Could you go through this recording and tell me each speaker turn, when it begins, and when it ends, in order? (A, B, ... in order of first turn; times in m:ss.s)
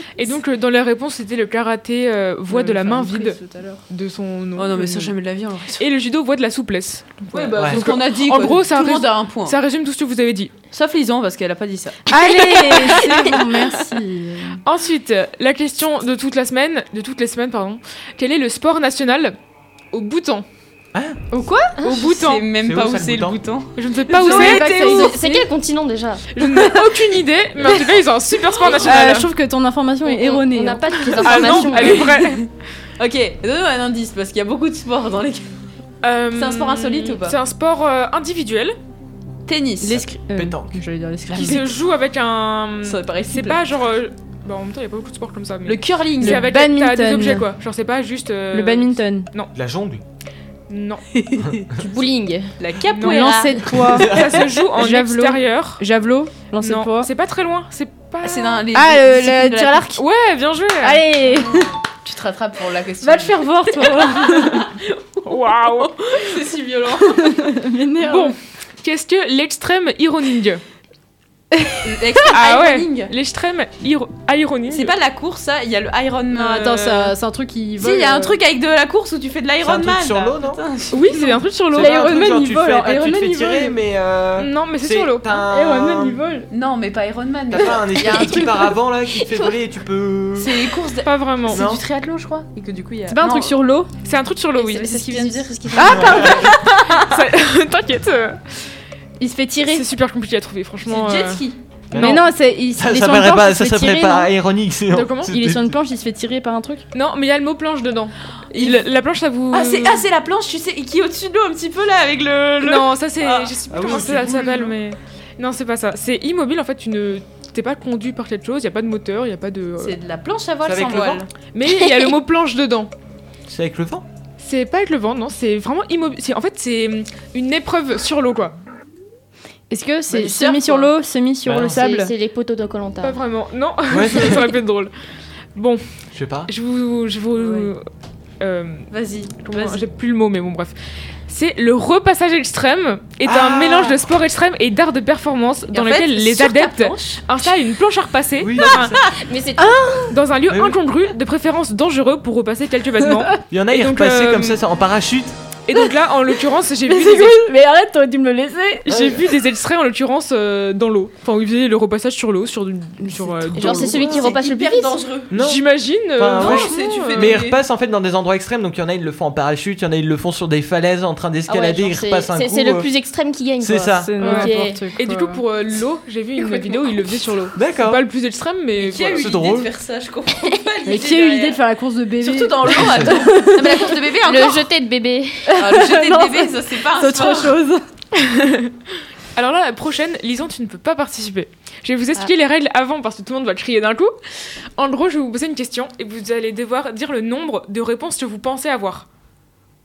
0:00.2-0:05.1 A
0:02.5-0:03.8 B
0:04.6-0:05.8 C
0:05.8-0:10.5 A
0:07.3-0:09.6 C
0:07.6-0:07.9 D
0:10.7-0:13.7 C
0:12.1-0:14.6 B
0:14.6-0:19.4 A
0:19.9-0:20.5 A
0:20.9-0:21.2 D
0:21.3-0:21.6 B
0:21.6-0:25.2 C
0:21.8-0:22.4 A
0:22.6-0:23.6 D
0:23.8-0:25.1 A
0:24.2-0:25.4 B
0:24.7-0:26.2 E
0:26.4-0:29.3 A
0:26.4-0:26.8 B
0:28.6-0:32.1 B
0:30.1-0:32.1 E
0:31.2-0:32.4 A
0:31.7-0:32.2 C
0:33.0-0:35.6 C
0:36.0-0:38.8 A
0:36.3-0:37.4 C
0:39.5-0:40.0 C
0:39.8-0:41.7 B
0:40.3-0:40.8 D
0:41.3-0:49.5 A
0:42.8-0:43.6 C
0:45.7-0:46.5 C
0:46.2-0:47.5 B
0:48.5-0:49.3 B
0:49.6-0:50.0 D
0:50.7-0:51.0 A
0:51.2-0:51.7 C
0:51.8-0:52.5 E
0:52.6-0:53.8 C
0:52.9-0:55.8 A
0:53.0-0:54.2 B
0:54.0-0:54.4 D
0:54.7-0:57.1 B
0:56.6-0:58.6 A
0:58.2-0:59.8 C
0:58.7-1:00.0 B
1:00.0-1:01.0 A
1:00.8-1:01.8 B
1:02.0-1:07.5 C
1:03.0-1:04.7 B
1:04.3-1:04.7 A
1:05.3-1:05.9 A
1:07.1-1:08.4 B
1:08.1-1:10.6 A
1:11.5-1:11.8 B
1:11.8-1:13.1 C
1:12.3-1:14.9 A
1:14.7-1:17.2 C
1:16.3-1:18.4 B
1:17.8-1:21.4 C
1:19.6-1:20.6 D
1:20.9-1:22.1 A
1:21.7-1:23.8 B
1:21.7-1:26.2 D
1:24.4-1:25.3 A
1:25.3-1:26.5 B
1:26.5-1:28.8 C
1:27.5-1:30.6 D
1:30.4-1:33.6 C
1:31.0-1:31.6 A
1:31.5-1:31.8 D
1:33.1-1:33.9 B
1:34.0-1:35.0 A
1:34.6-1:36.4 C
1:34.8-1:36.6 B
1:35.8-1:38.4 A
1:36.0-1:36.3 D
1:39.2-1:39.8 B
1:39.7-1:41.4 A
1:40.9-1:41.6 C
1:41.9-1:45.8 D
1:42.0-1:44.3 B
1:44.9-1:45.3 A
1:45.3-1:46.9 B
1:46.9-1:50.0 A
1:48.5-1:48.9 C
1:49.5-1:53.5 C
1:52.6-2:00.0 A
1:53.7-1:54.8 D
1:59.8-2:01.3 C
2:00.6-2:01.2 D
2:01.5-2:02.9 A
2:03.5-2:04.0 D
2:04.4-2:08.6 A
2:09.7-2:12.1 B
2:10.1-2:10.9 C
2:11.5-2:11.8 D
2:11.7-2:13.2 E
2:13.0-2:14.9 A
2:13.9-2:14.5 D
2:15.6-2:15.8 A
2:16.1-2:16.5 D
2:16.5-2:17.8 A
2:17.4-2:17.7 C
2:18.4-2:20.7 A
2:18.9-2:19.8 C
2:21.3-2:29.0 A
2:23.2-2:24.0 D
2:25.7-2:27.3 C
2:28.4-2:29.0 D
2:29.2-2:30.0 E
2:29.6-2:30.2 B
2:30.1-2:34.6 A
2:30.5-2:30.8 D
2:33.5-2:35.4 D
2:35.7-2:37.5 A
2:36.9-2:38.9 B
2:38.9-2:44.1 A
2:38.9-2:39.2 D
2:43.0-2:43.9 B
2:43.6-2:45.1 E
2:43.9-2:45.3 C
2:44.0-2:44.3 D
2:45.3-2:52.9 D
2:45.4-2:47.4 A
2:46.4-2:47.6 C
2:51.5-2:54.8 E
2:53.6-2:54.2 D
2:53.9-2:55.4 B
2:54.2-2:59.3 A
2:57.6-2:58.0 D
2:58.8-3:01.6 C
2:59.2-2:59.7 D
3:00.9-3:04.0 B
3:02.2-3:04.7 C
3:02.8-3:03.2 D
3:04.2-3:05.6 E
3:05.5-3:07.8 B
3:05.6-3:07.6 C
3:08.2-3:08.7 A
3:09.4-3:19.1 A